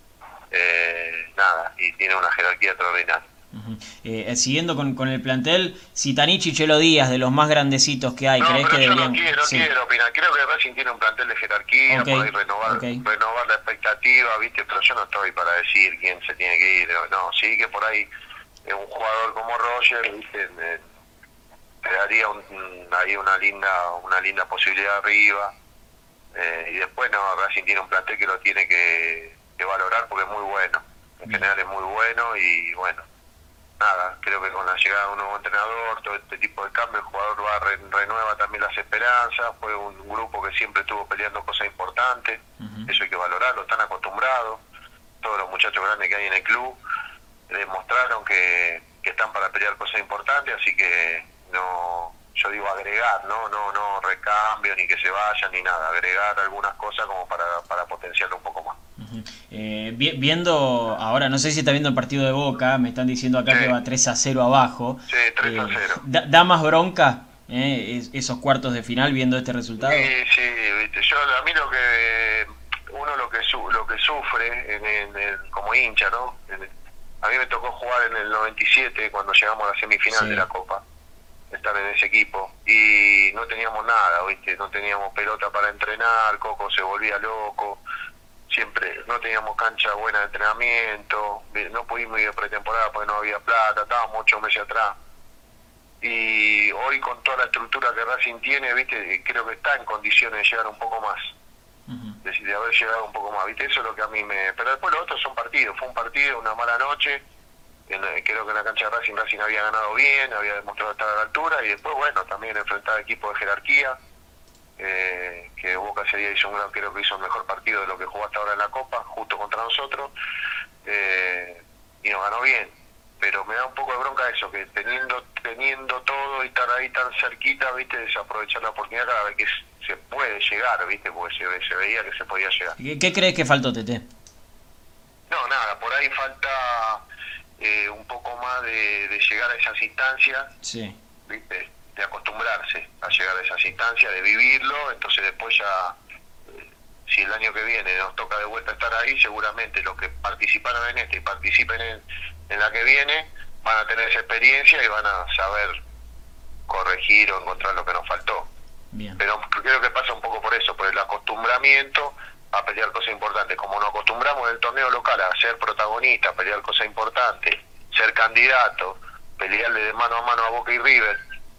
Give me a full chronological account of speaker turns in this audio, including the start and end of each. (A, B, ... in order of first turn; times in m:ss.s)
0:00.5-0:03.2 A
0:03.5-0:09.7 B
0:08.4-0:18.1 A
0:11.9-0:13.0 B
0:18.6-0:20.8 A
0:21.8-0:25.5 A
0:26.3-0:33.1 A
0:33.8-0:44.6 A
0:42.6-0:42.9 B
0:45.2-0:46.8 A
0:47.5-0:58.8 A
0:59.0-1:10.1 B
1:05.1-1:06.0 A
1:09.8-1:16.7 A
1:17.2-1:20.8 A
1:20.1-1:20.5 B
1:21.5-1:27.8 A
1:28.5-1:35.0 A
1:36.0-1:41.3 A
1:41.9-1:42.2 B
1:42.2-1:47.2 A
1:47.9-1:54.0 A
1:54.8-2:00.1 A
2:00.8-2:12.8 A
2:12.8-2:14.1 B
2:15.3-2:17.0 A
2:17.6-2:20.5 A
2:20.6-2:21.0 B
2:21.3-2:26.0 A
2:26.6-2:35.8 A
2:36.7-2:38.5 A
2:38.9-2:39.2 B
2:39.2-2:51.2 A